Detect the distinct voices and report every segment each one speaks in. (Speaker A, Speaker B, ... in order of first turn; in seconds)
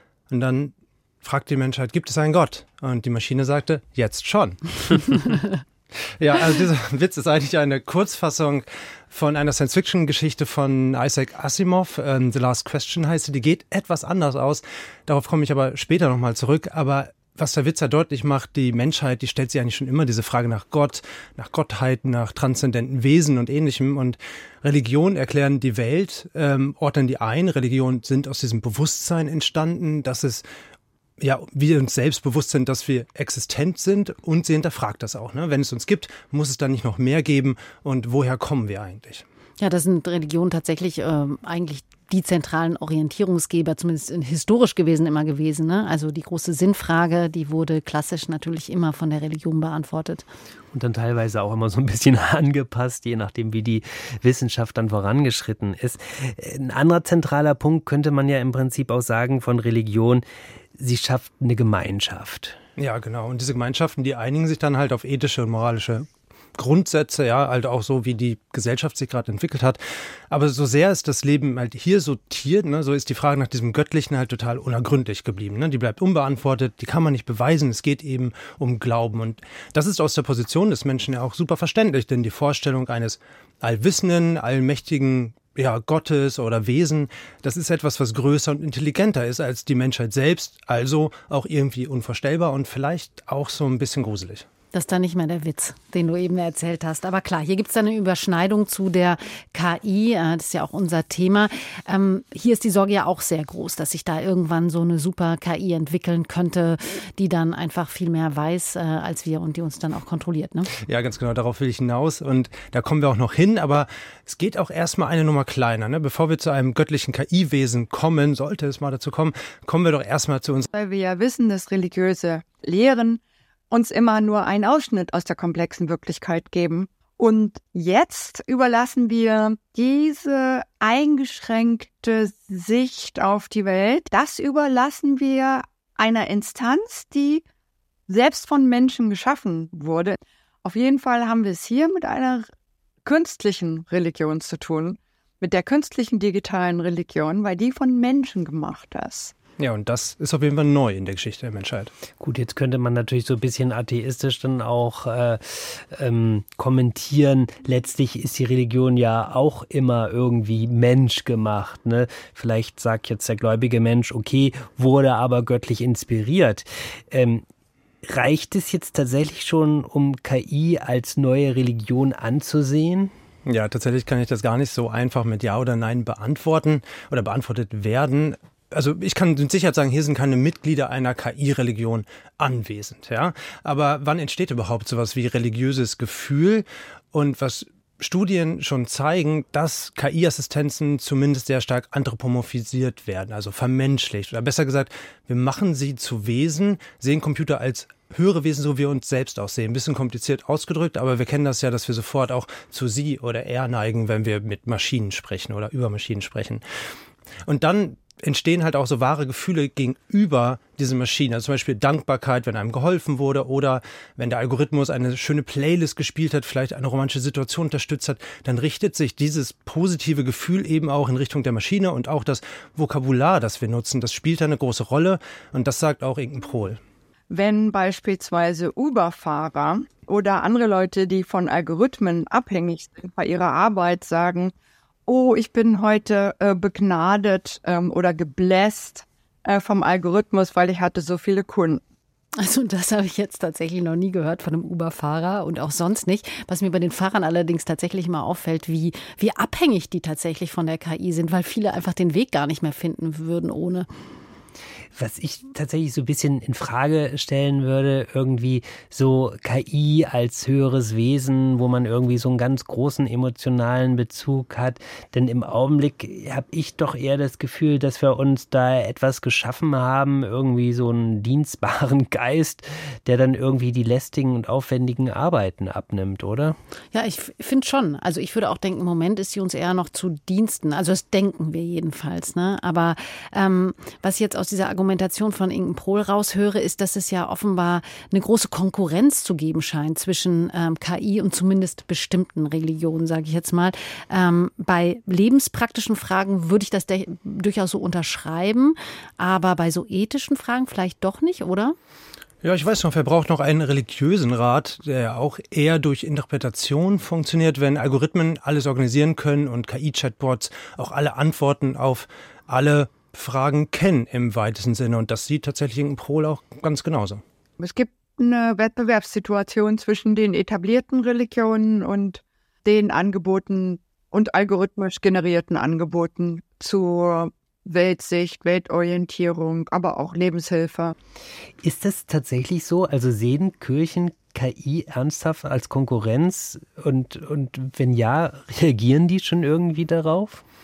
Speaker A: 0.3-5.2, 6.2-30.5, 31.2-39.2, 62.8-94.5, 110.8-120.7, 149.6-151.9, 173.5-206.6, 207.4-226.8, 302.4-317.2
Speaker B: 39.6-50.2, 94.7-110.7, 242.4-253.9, 276.9-301.8
Speaker C: 50.7-60.2, 60.8-62.6, 152.2-167.4, 168.1-173.1, 254.9-276.6, 331.6-340.4
Speaker D: 120.7-137.4, 138.1-142.5, 143.1-149.3, 227.3-234.5, 235.1-241.8, 317.6-330.9